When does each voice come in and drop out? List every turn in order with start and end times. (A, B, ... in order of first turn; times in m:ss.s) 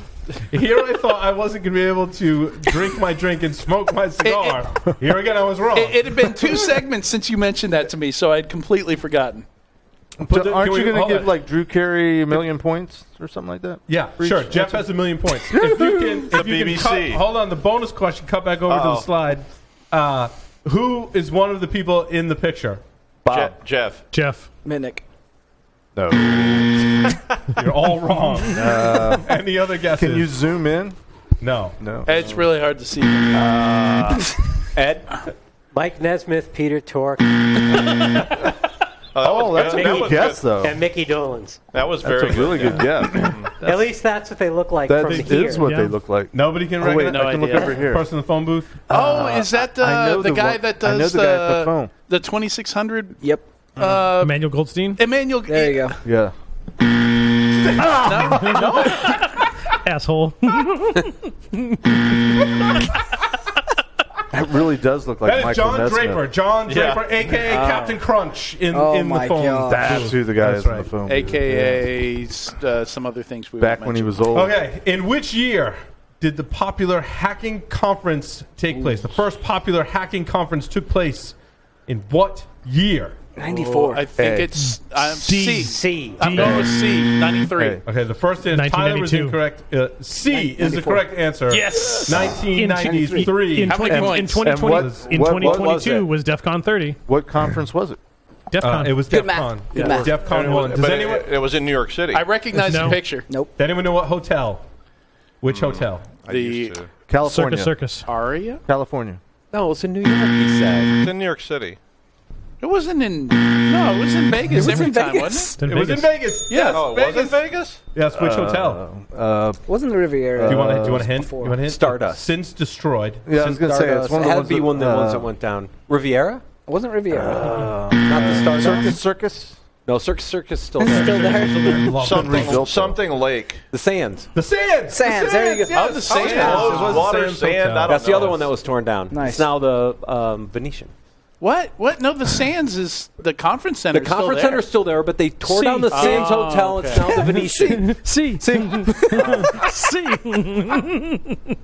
0:00.5-0:06.4 A
0:04.2-0:04.6 B
0:05.7-0:09.4 B
0:10.2-0:14.9 C
0:10.3-0:11.3 A
0:13.9-0:22.8 A
0:15.5-0:16.1 C
0:16.3-0:17.2 D
0:18.6-0:19.1 D
0:23.2-0:23.5 C
0:23.3-0:24.0 D
0:24.1-0:24.5 E
0:24.6-0:25.0 F
0:26.0-0:27.0 C
0:27.5-0:30.3 A
0:28.5-0:29.3 C
0:29.9-0:31.0 C
0:31.4-0:31.8 A
0:31.8-0:32.4 C
0:32.0-0:33.4 B
0:33.3-0:34.3 C
0:34.7-0:35.2 G
0:35.7-0:38.3 H
0:39.1-0:40.5 D
0:39.2-0:40.8 C
0:39.6-0:41.6 H
0:41.7-0:43.5 D
0:42.0-0:43.5 C
0:43.6-0:45.7 H
0:44.8-0:48.0 C
0:45.0-0:45.5 A
0:45.5-0:46.0 E
0:46.3-0:48.8 A
0:46.9-0:47.9 B
0:48.9-0:51.9 C
0:48.9-0:53.2 B
0:53.8-0:54.4 B
0:53.8-0:55.0 E
0:55.0-0:56.0 B
0:55.5-0:56.0 F
0:56.0-0:56.3 C
0:57.6-0:59.3 A
0:57.8-0:59.2 B
0:58.3-1:02.1 E
1:02.5-1:02.9 A
1:04.3-1:06.2 C
1:05.2-1:10.9 A
1:06.6-1:07.0 D
1:07.4-1:08.0 B
1:08.7-1:10.0 F
1:09.7-1:11.8 C
1:11.1-1:14.2 B
1:13.6-1:14.5 C
1:14.3-1:21.3 A
1:21.9-1:23.2 A
1:23.4-1:24.0 F
1:23.4-1:27.8 B
1:24.2-1:24.5 C
1:24.6-1:26.7 E
1:25.6-1:26.5 H
1:26.3-1:26.7 C
1:27.6-1:27.8 C
1:27.8-1:34.0 A
1:28.5-1:29.4 E
1:30.3-1:31.0 F
1:31.5-1:37.0 E
1:32.8-1:33.2 F
1:33.6-1:34.5 B
1:34.0-1:36.1 C
1:34.5-1:35.6 A
1:37.1-1:38.0 C
1:38.5-1:39.1 E
1:38.6-1:41.3 A
1:39.1-1:40.2 F
1:39.7-1:40.0 B
1:39.8-1:42.3 D
1:42.1-1:43.3 B
1:42.5-1:43.0 E
1:43.3-1:43.5 F
1:43.6-1:44.6 A
1:45.4-1:46.2 A
1:45.5-1:46.9 D
1:46.3-1:46.8 B
1:47.1-1:47.8 C
1:47.2-1:48.1 E
1:48.0-1:48.6 B
1:48.7-1:49.2 C
1:49.5-1:51.0 G
1:50.9-1:51.8 D
1:52.6-1:55.6 B
1:54.5-1:55.6 F
1:54.6-1:54.8 E
1:55.6-1:56.2 E
1:55.6-1:58.8 A
1:56.5-1:56.8 B
1:56.5-1:57.8 D
1:58.1-1:59.6 C
1:59.7-2:01.6 F
2:00.4-2:01.1 C
2:00.4-2:03.5 A
2:01.6-2:02.2 G
2:03.2-2:05.3 C
2:03.4-2:06.4 G
2:06.7-2:07.8 F
2:07.1-2:09.6 C
2:07.6-2:09.0 G
2:09.8-2:11.6 G
2:10.8-2:12.0 F
2:10.9-2:12.7 A
2:12.0-2:13.0 C
2:12.0-2:13.6 D
2:13.7-2:14.3 G
2:14.3-2:18.3 A
2:14.9-2:16.6 F
2:15.7-2:17.1 B
2:16.1-2:18.6 D
2:16.4-2:16.7 G
2:17.8-2:20.9 G
2:19.1-2:19.5 F
2:21.4-2:24.7 B
2:23.9-2:28.0 G
2:25.4-2:26.3 E
2:25.9-2:27.2 B
2:27.0-2:29.5 F
2:27.4-2:31.4 E